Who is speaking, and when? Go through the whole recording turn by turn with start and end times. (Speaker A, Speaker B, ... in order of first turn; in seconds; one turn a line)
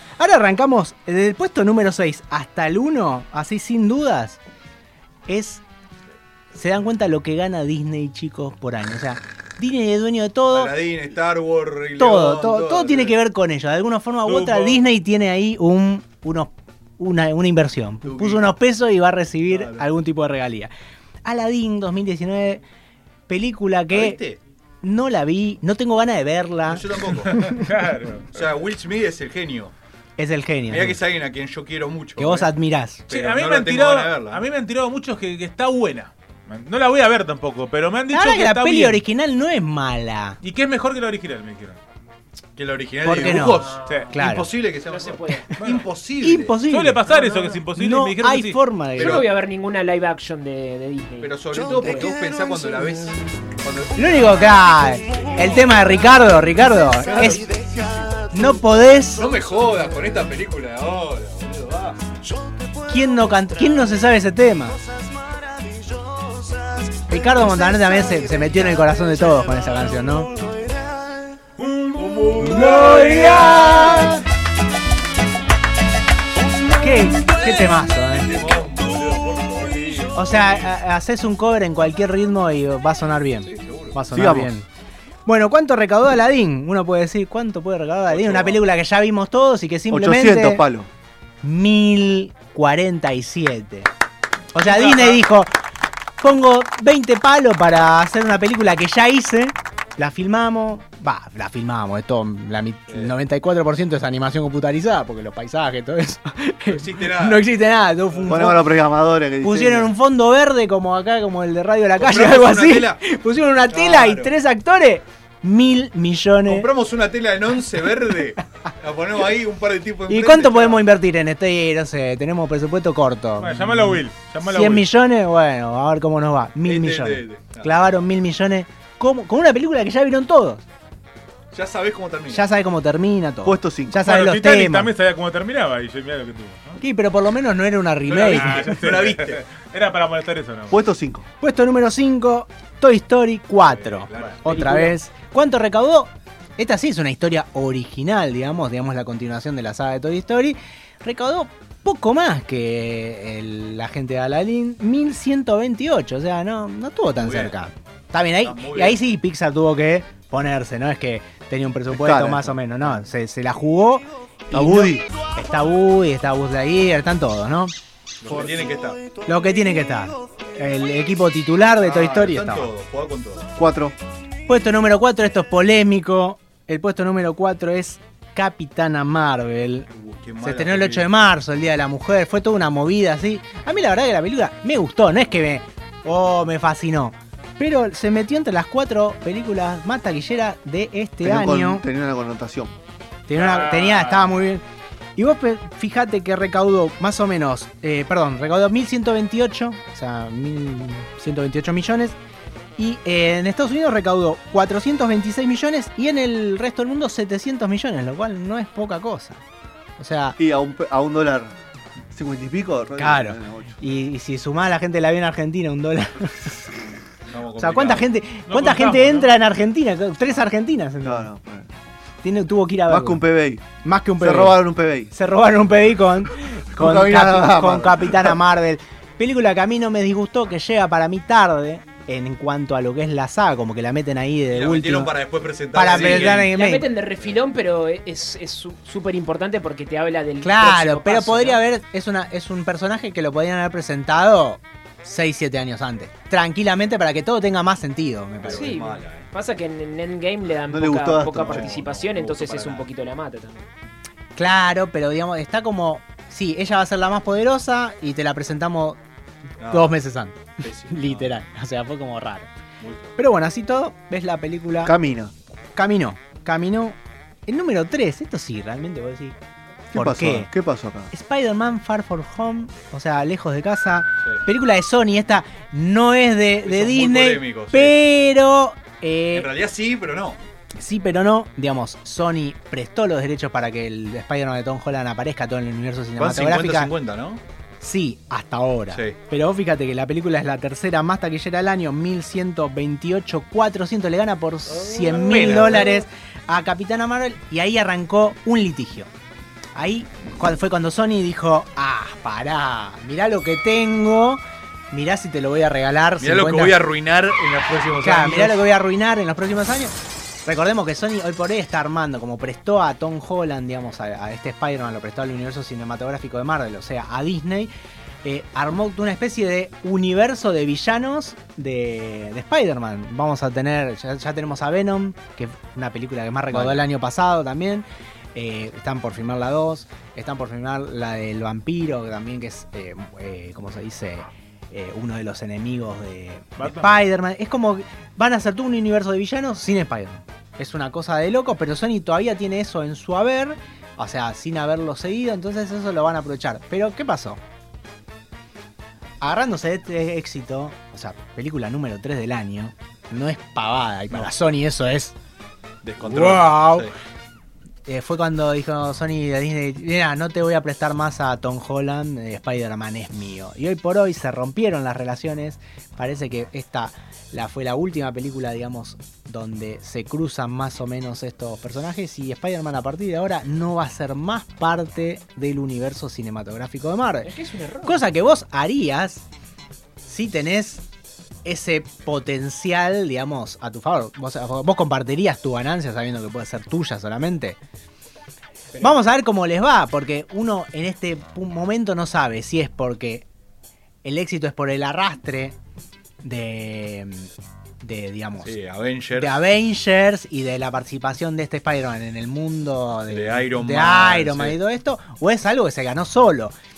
Speaker A: 0.2-4.4
Speaker A: 5.3-5.6
Speaker A: 6.5-10.7
Speaker B: 10.5-13.2
Speaker A: 12.0-20.7
Speaker C: 14.3-14.8
Speaker B: 18.1-18.5
Speaker B: 19.6-19.8
Speaker A: 21.2-22.6
Speaker A: 23.3-24.2
Speaker B: 23.9-24.4
Speaker A: 24.8-27.6
Speaker B: 26.7-27.4
Speaker C: 27.4-28.3
Speaker B: 28.3-29.7
Speaker A: 30.2-31.0
Speaker B: 30.7-32.5
Speaker A: 32.2-33.0
Speaker C: 33.1-39.0
Speaker B: 33.1-34.4
Speaker A: 38.1-40.4
Speaker C: 40.4-41.8
Speaker B: 42.6-46.6
Speaker A: 43.0-44.5
Speaker D: 43.6-44.0
Speaker C: 43.9-44.1
Speaker D: 44.9-45.5
Speaker A: 46.2-47.1
Speaker C: 46.7-48.6
Speaker D: 47.1-47.5
Speaker A: 47.7-49.2
Speaker B: 49.0-49.3
Speaker D: 49.0-52.1
Speaker B: 51.2-54.5
Speaker A: 54.0-57.5
Speaker B: 55.1-55.9
Speaker B: 57.0-58.0
Speaker A: 58.3-59.3
Speaker B: 59.1-62.0
Speaker A: 62.9-64.8
Speaker A: 67.1-70.3
Speaker C: 71.6-73.8
Speaker B: 72.0-74.1
Speaker A: 72.4-74.2
Speaker A: 76.8-78.3
Speaker B: 78.2-80.2
Speaker A: 80.1-84.7
Speaker B: 83.5-84.0
Speaker E: 84.1-84.5
Speaker A: 85.3-90.6
Speaker B: 88.1-88.6
Speaker E: 89.9-90.9
Speaker A: 91.4-93.9
Speaker A: 94.5-95.5
Speaker C: 94.6-95.2
Speaker A: 96.2-108.8
Speaker B: 106.7-107.5
Speaker E: 108.3-109.9
Speaker A: 109.4-116.7
Speaker B: 112.0-113.0
Speaker B: 113.7-114.3
Speaker B: 116.5-120.8
Speaker A: 120.1-130.6
Speaker C: 123.4-124.9
Speaker B: 126.6-127.9
Speaker B: 131.5-132.5
Speaker A: 132.3-134.9
Speaker E: 133.4-134.0
Speaker C: 134.0-136.8
Speaker A: 136.8-138.9
Speaker B: 138.1-139.4
Speaker C: 138.2-140.8
Speaker E: 140.7-141.2
Speaker A: 141.4-167.7
Speaker B: 143.8-144.4
Speaker D: 144.5-144.9
Speaker B: 157.2-157.5
Speaker B: 158.4-159.0
Speaker E: 161.9-162.5
Speaker E: 164.5-165.1
Speaker B: 168.2-169.0
Speaker E: 168.3-168.8
Speaker A: 169.3-172.7
Speaker B: 171.8-173.5
Speaker E: 173.6-173.9
Speaker A: 174.5-179.9
Speaker B: 179.9-181.1
Speaker A: 180.4-191.9
Speaker E: 191.2-192.7
Speaker A: 193.3-194.6
Speaker C: 193.3-194.3
Speaker A: 195.2-202.2
Speaker A: 202.8-209.4
Speaker A: 210.0-210.4
Speaker E: 210.4-211.5
Speaker E: 212.1-213.8
Speaker A: 213.0-216.8
Speaker B: 217.3-218.1
Speaker A: 217.6-221.3
Speaker C: 218.5-219.3
Speaker E: 221.0-221.7
Speaker A: 222.2-223.2
Speaker E: 222.9-223.6
Speaker A: 223.8-235.1
Speaker E: 224.2-225.1
Speaker E: 226.7-228.3
Speaker B: 234.5-236.6
Speaker A: 235.7-236.9
Speaker D: 235.9-241.6
Speaker A: 240.4-248.8
Speaker B: 248.4-249.3
Speaker D: 248.4-253.7
Speaker E: 250.7-251.8
Speaker B: 251.4-252.9
Speaker A: 254.4-259.0
Speaker B: 259.6-259.9
Speaker A: 259.7-262.5
Speaker B: 260.6-261.3
Speaker B: 262.8-263.1
Speaker A: 263.2-264.9
Speaker E: 264.8-265.3
Speaker A: 265.8-269.4
Speaker E: 269.9-271.1
Speaker A: 269.9-270.5
Speaker A: 271.1-279.5
Speaker B: 276.6-278.0
Speaker B: 279.3-280.4
Speaker A: 280.8-286.9
Speaker B: 286.2-287.4
Speaker A: 287.8-299.1
Speaker B: 288.9-289.2
Speaker B: 294.7-296.0
Speaker A: 299.8-306.8
Speaker B: 306.2-308.6
Speaker A: 308.0-317.7
Speaker A: 318.2-347.4
Speaker B: 326.5-326.9
Speaker C: 336.6-336.9
Speaker A: 349.2-355.1
Speaker B: 355.8-356.9
Speaker A: 356.0-356.9
Speaker A: 357.9-377.3
Speaker D: 377.2-378.1
Speaker A: 377.8-379.2
Speaker A: 380.0-380.9
Speaker A: 381.4-387.6
Speaker A: 388.8-393.3
Speaker A: 394.0-395.6
Speaker A: 396.2-397.3
Speaker A: 397.8-398.5
Speaker B: 398.4-399.4
Speaker A: 399.1-406.5
Speaker B: 403.1-404.6